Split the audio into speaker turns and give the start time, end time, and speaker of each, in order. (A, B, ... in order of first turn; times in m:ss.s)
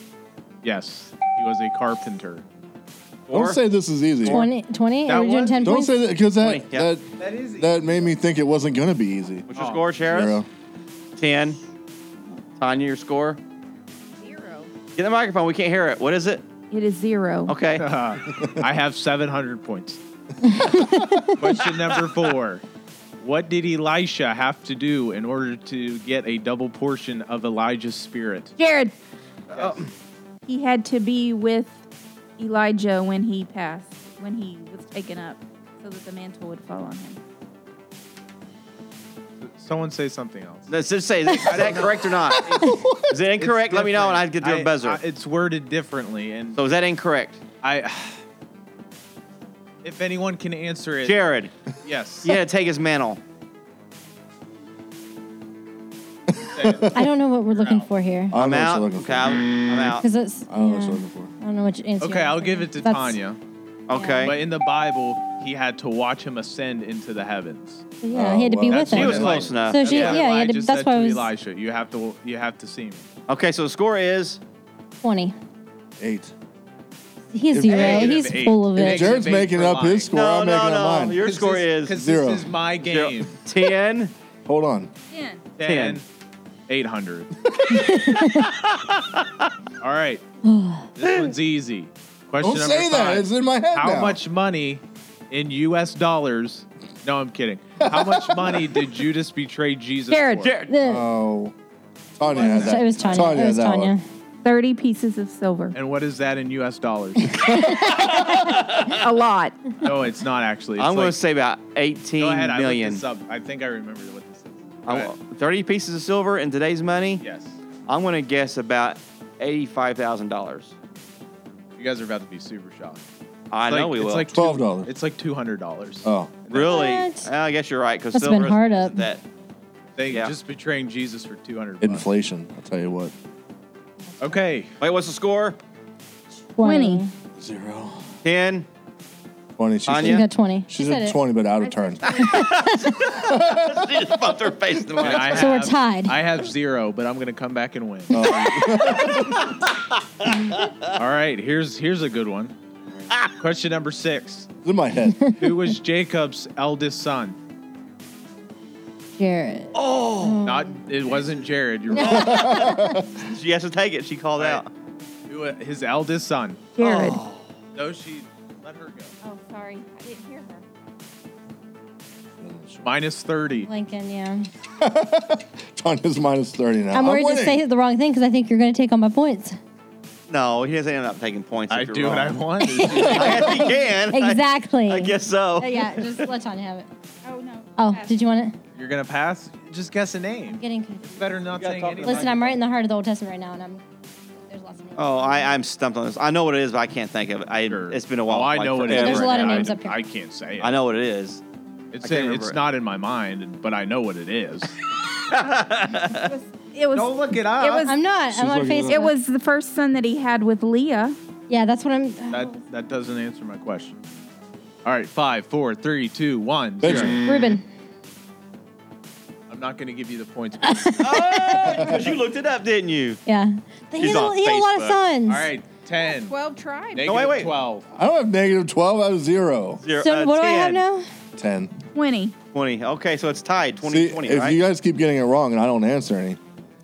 0:00.6-0:02.4 A
0:03.3-0:03.6 B
0:03.3-0:04.4 C
0:04.2-0:06.0 D
0:05.0-0:05.7 A
0:05.6-0:09.5 C
0:06.4-0:06.9 B
0:07.2-0:08.1 A
0:09.5-0:10.4 B
0:09.5-0:09.8 A
0:10.1-0:10.5 C
0:11.2-0:11.6 B
0:12.6-0:13.4 B
0:14.2-0:14.7 E
0:14.9-0:16.4 B
0:16.7-0:17.6 E
0:17.5-0:17.8 B
0:17.8-0:20.0 A
0:18.3-0:18.6 C
0:20.4-0:21.3 D
0:20.8-0:21.2 C
0:21.4-0:22.6 A
0:23.2-0:28.5 A
0:28.6-0:28.9 E
0:29.5-0:29.9 B
0:29.5-0:29.8 A
0:30.5-0:31.8 E
0:32.4-0:37.2 E
0:39.4-0:40.7 A
0:40.7-0:42.5 B
0:41.4-0:42.8 A
0:42.4-0:43.1 C
0:43.1-0:45.0 B
0:43.4-0:46.6 A
0:46.5-0:47.4 B
0:47.6-0:48.2 A
0:49.8-0:51.2 A
0:51.0-0:51.5 B
0:51.8-0:52.4 A
0:52.2-0:53.2 B
0:56.4-0:57.0 C
0:56.5-0:57.9 A
0:56.9-0:58.4 D
0:58.3-0:59.4 C
0:58.3-1:00.0 B
0:59.9-1:03.2 D
1:00.5-1:01.3 C
1:02.0-1:03.4 A
1:03.9-1:04.4 B
1:03.9-1:04.3 D
1:04.2-1:07.8 A
1:08.0-1:11.3 D
1:08.1-1:09.5 C
1:08.7-1:13.1 A
1:08.9-1:10.2 B
1:13.3-1:14.4 B
1:15.0-1:15.3 D
1:16.0-1:16.3 C
1:17.3-1:19.2 D
1:17.5-1:18.2 C
1:17.6-1:20.1 A
1:18.7-1:21.2 C
1:20.1-1:22.0 B
1:21.2-1:23.4 A
1:21.9-1:22.5 C
1:22.8-1:24.1 B
1:24.4-1:24.9 C
1:25.1-1:25.5 E
1:25.6-1:26.0 A
1:25.6-1:26.0 B
1:26.7-1:27.3 A
1:27.7-1:28.5 D
1:28.7-1:29.3 B
1:29.8-1:30.2 A
1:30.4-1:30.9 D
1:31.0-1:40.5 A
1:31.0-1:31.3 B
1:32.4-1:34.2 C
1:37.8-1:38.5 C
1:40.1-1:40.5 E
1:40.1-1:40.7 B
1:40.7-1:41.0 D
1:40.8-1:41.5 C
1:42.2-1:44.0 C
1:42.2-1:43.2 A
1:42.4-1:44.0 D
1:44.4-1:45.7 E
1:45.7-1:47.7 A
1:47.4-1:48.3 D
1:48.3-1:49.0 B
1:48.8-1:49.7 E
1:49.8-1:51.2 A
1:50.8-1:53.0 B
1:52.2-1:55.1 A
1:54.8-1:57.2 B
1:57.2-1:57.6 A
1:57.9-2:00.7 B
2:01.8-2:03.0 A
2:03.5-2:04.3 B
2:03.7-2:06.8 A
2:04.3-2:04.9 C
2:06.0-2:06.3 C
2:06.5-2:09.2 B
2:06.6-2:07.3 D
2:08.1-2:09.0 D
2:10.0-2:12.0 A
2:10.1-2:10.4 B
2:11.8-2:13.1 C
2:14.2-2:14.8 A
2:14.8-2:15.6 B
2:16.5-2:17.1 D
2:16.6-2:17.0 E
2:17.4-2:18.1 C
2:18.2-2:18.7 B
2:19.6-2:22.1 C
2:19.9-2:20.2 B
2:20.0-2:21.2 D
2:21.6-2:22.4 E
2:22.0-2:25.6 B
2:22.2-2:23.1 D
2:23.1-2:23.9 C
2:24.9-2:25.2 C
2:25.0-2:29.1 A
2:25.3-2:26.2 D
2:28.1-2:29.4 C
2:30.5-2:30.9 B
2:31.0-2:32.5 A
2:33.4-2:34.5 A
2:34.6-2:35.3 C
2:35.4-2:37.4 A
2:39.2-2:40.8 D
2:39.7-2:40.4 B
2:40.4-2:42.5 A
2:41.9-2:43.0 D
2:42.0-2:43.1 C
2:42.0-2:44.7 B
2:44.4-2:44.6 A
2:45.3-2:46.7 A
2:46.8-2:47.2 E
2:46.8-2:47.5 B
2:47.7-2:49.1 A
2:49.2-2:50.6 E
2:52.4-2:53.0 C
2:52.8-2:53.7 A
2:53.6-2:54.5 D
2:54.8-2:57.6 C
2:56.9-2:59.6 D
3:00.3-3:02.4 B
3:01.7-3:03.6 A
3:02.6-3:03.2 D
3:02.9-3:03.7 C
3:02.9-3:06.3 B
3:04.1-3:06.9 D
3:07.2-3:08.2 E
3:07.8-3:08.5 D
3:08.8-3:12.6 A
3:10.5-3:11.3 D
3:11.5-3:12.5 B
3:12.0-3:13.8 D
3:14.4-3:15.6 D
3:15.0-3:19.7 B
3:17.7-3:20.8 A
3:18.8-3:20.0 D
3:20.6-3:21.4 B
3:21.9-3:24.7 A
3:22.0-3:22.6 B
3:25.3-3:26.3 B
3:26.2-3:27.9 E
3:26.9-3:27.9 A
3:27.8-3:29.1 D
3:28.3-3:29.0 C
3:28.8-3:31.2 E
3:31.5-3:32.5 D
3:32.3-3:34.0 A
3:34.8-3:37.2 A
3:36.8-3:37.2 C
3:37.2-3:37.6 D
3:39.5-3:41.0 A
3:40.7-3:41.9 D
3:41.0-3:43.2 B
3:43.2-3:45.5 D
3:44.0-3:45.0 B
3:45.3-3:46.3 A
3:46.0-3:47.1 E
3:46.9-3:47.8 A
3:47.0-3:47.5 B
3:47.9-3:49.8 C
3:49.8-3:50.8 B
3:50.0-3:51.0 D
3:51.4-3:51.7 C
3:51.9-3:52.4 E
3:52.5-3:54.6 B
3:53.8-3:56.4 C